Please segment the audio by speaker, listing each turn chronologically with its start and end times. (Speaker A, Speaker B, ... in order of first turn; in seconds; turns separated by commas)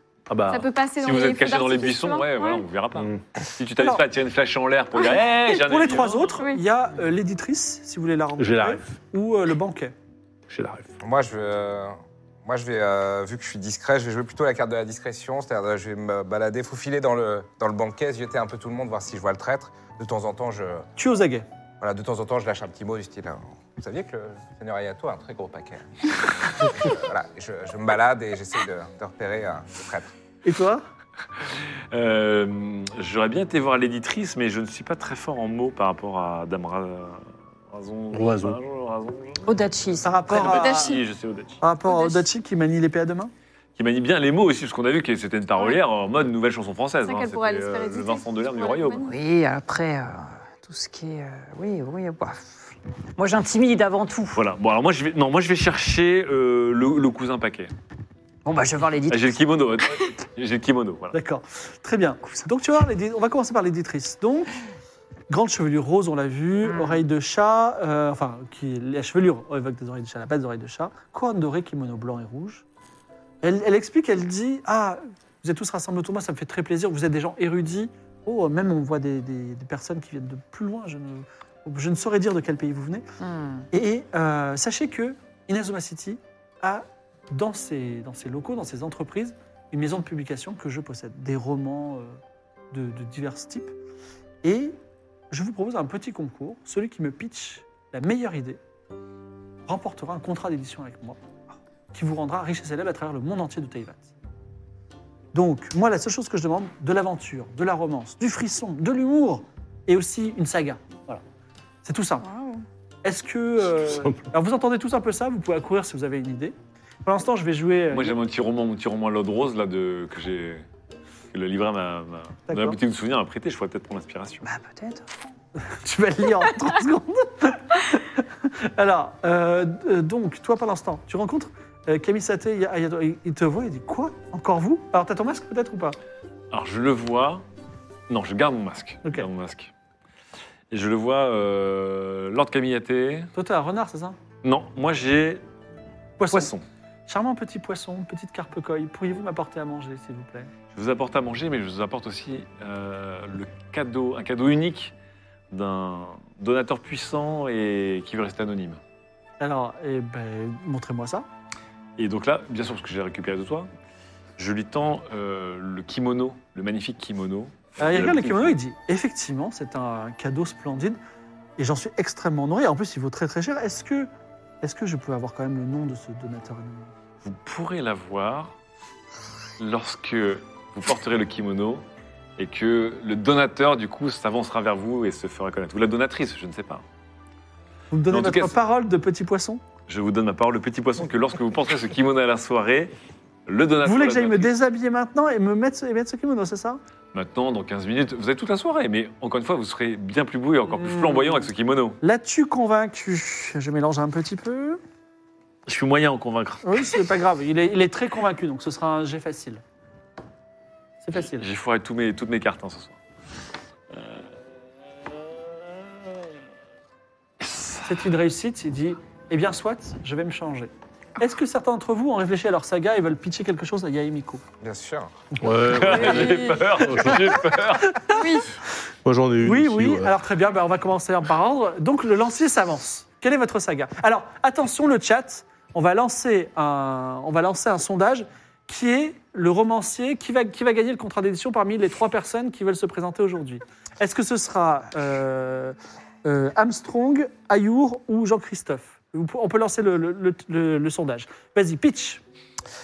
Speaker A: 0.3-0.7, Speaker B: 0.5-2.6, Speaker C: 1.0-6.4, Speaker A: 3.0-3.2, Speaker D: 5.6-9.9, Speaker B: 6.3-6.6, Speaker A: 8.4-8.8, Speaker A: 10.5-10.9, Speaker E: 11.0-20.9, Speaker D: 21.0-21.4, Speaker E: 21.8-30.1, Speaker D: 30.4-30.8, Speaker C: 31.9-39.6, Speaker A: 38.1-38.6, Speaker F: 39.4-40.4, Speaker D: 40.0-40.9, Speaker C: 40.3-41.6, Speaker B: 40.4-41.0, Speaker D: 41.6-43.3, Speaker B: 41.9-42.2, Speaker C: 43.8-49.0, Speaker B: 47.0-49.1, Speaker F: 49.0-54.4, Speaker C: 54.3-57.7, Speaker F: 58.4-59.4, Speaker C: 59.1-61.1, Speaker D: 61.1-64.5, Speaker D: 65.3-72.6, Speaker F: 66.6-67.0, Speaker D: 73.4-83.0, Speaker F: 83.2-83.6, Speaker D: 83.7-92.2, Speaker D: 92.7-93.7, Speaker D: 94.4-94.8, Speaker D: 95.3-98.6, Speaker D: 99.7-101.2, Speaker D: 101.9-104.1, Speaker D: 105.3-111.2, Speaker D: 111.8-112.2, Speaker B: 112.2-112.6, Speaker D: 113.0-118.2, Speaker A: 113.7-114.2, Speaker C: 117.9-120.6, Speaker C: 121.3-124.5, Speaker D: 122.5-122.8, Speaker F: 124.4-125.1, Speaker D: 125.6-136.0, Speaker C: 136.5-137.4, Speaker C: 138.1-139.7, Speaker C: 140.7-143.3, Speaker D: 143.3-144.2, Speaker C: 144.4-145.4, Speaker D: 146.2-146.5, Speaker C: 146.3-146.6, Speaker D: 147.1-150.5, Speaker C: 150.7-154.9, Speaker C: 155.5-158.8, Speaker D: 159.4-161.2, Speaker C: 162.0-163.7, Speaker C: 164.4-168.5, Speaker D: 167.8-171.0, Speaker D: 171.6-174.1, Speaker D: 174.6-176.9, Speaker C: 177.2-178.5, Speaker C: 179.6-181.8, Speaker C: 182.4-186.8, Speaker D: 187.9-189.6, Speaker C: 188.1-188.6, Speaker C: 189.9-192.9, Speaker C: 193.4-194.5, Speaker D: 193.8-196.8, Speaker C: 197.1-202.0, Speaker D: 200.7-201.5, Speaker D: 202.0-204.8, Speaker C: 205.7-206.6, Speaker D: 206.6-209.6, Speaker D: 211.0-211.4, Speaker C: 211.3-212.9, Speaker C: 213.9-214.2, Speaker C: 217.4-217.8, Speaker D: 217.8-224.4, Speaker E: 224.6-225.1, Speaker A: 225.4-227.3, Speaker C: 225.7-228.0, Speaker B: 226.1-226.6, Speaker D: 227.8-228.2, Speaker B: 228.1-228.5, Speaker A: 229.0-230.2, Speaker D: 229.4-252.2